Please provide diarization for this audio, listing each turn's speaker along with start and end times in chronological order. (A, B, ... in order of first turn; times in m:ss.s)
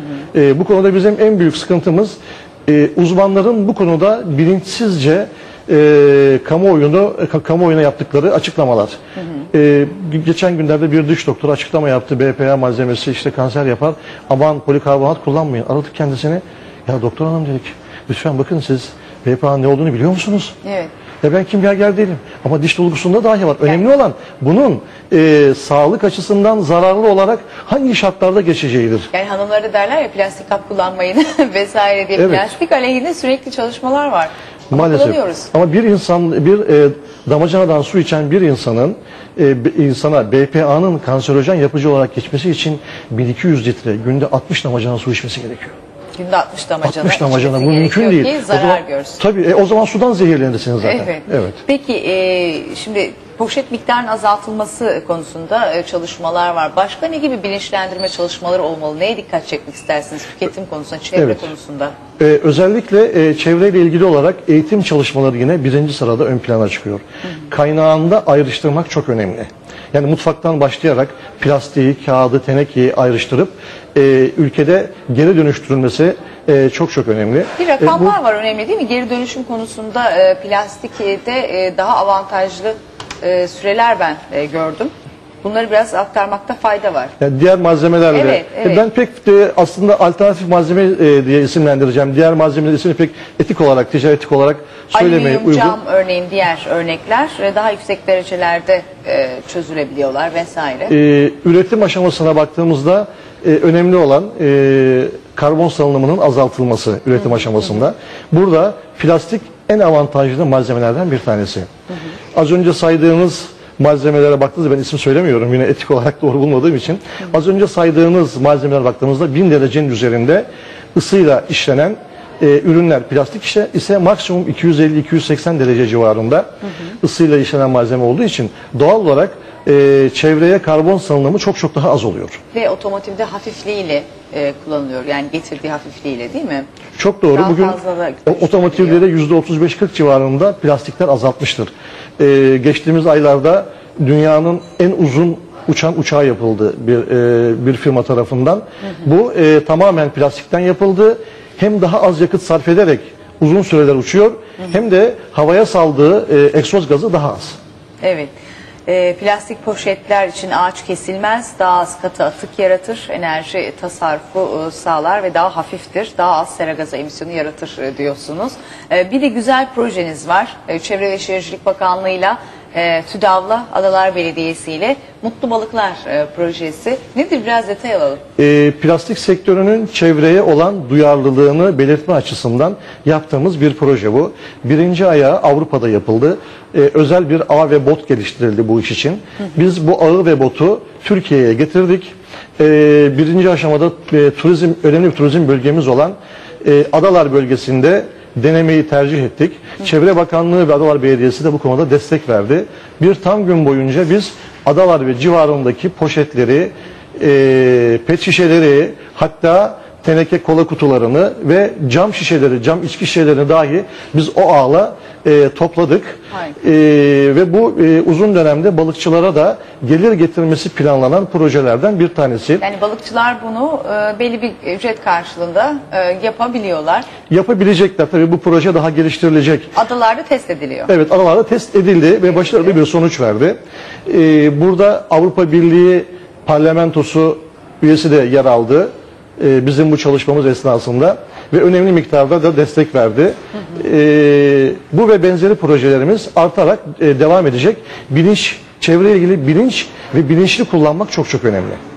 0:00.3-0:09.0 A
0:09.2-0:09.5 B
0:09.5-0:20.5 A
0:20.6-0:20.9 B
0:21.2-0:29.1 A
0:29.1-0:35.5 B
0:32.2-0:32.4 A
0:34.7-0:45.7 A
0:46.2-0:49.2 B
0:46.8-0:51.6 A
0:50.8-1:01.9 B
1:01.2-1:01.5 A
1:02.2-1:18.1 A
1:17.6-1:27.1 B
1:27.2-1:35.8 A
1:28.1-1:28.9 B
1:34.9-1:40.9 B
1:40.9-1:51.7 A
1:52.3-2:06.5 A
2:07.0-2:12.4 A
2:12.5-2:16.7 B
2:17.0-2:37.6 A
2:17.3-2:19.0 B
2:38.0-2:38.3 B
2:38.9-2:58.2 B
2:58.4-3:42.6 A
3:42.6-3:47.1 B
3:47.3-3:49.7 A
3:49.8-3:50.9 B
3:50.9-4:11.8 A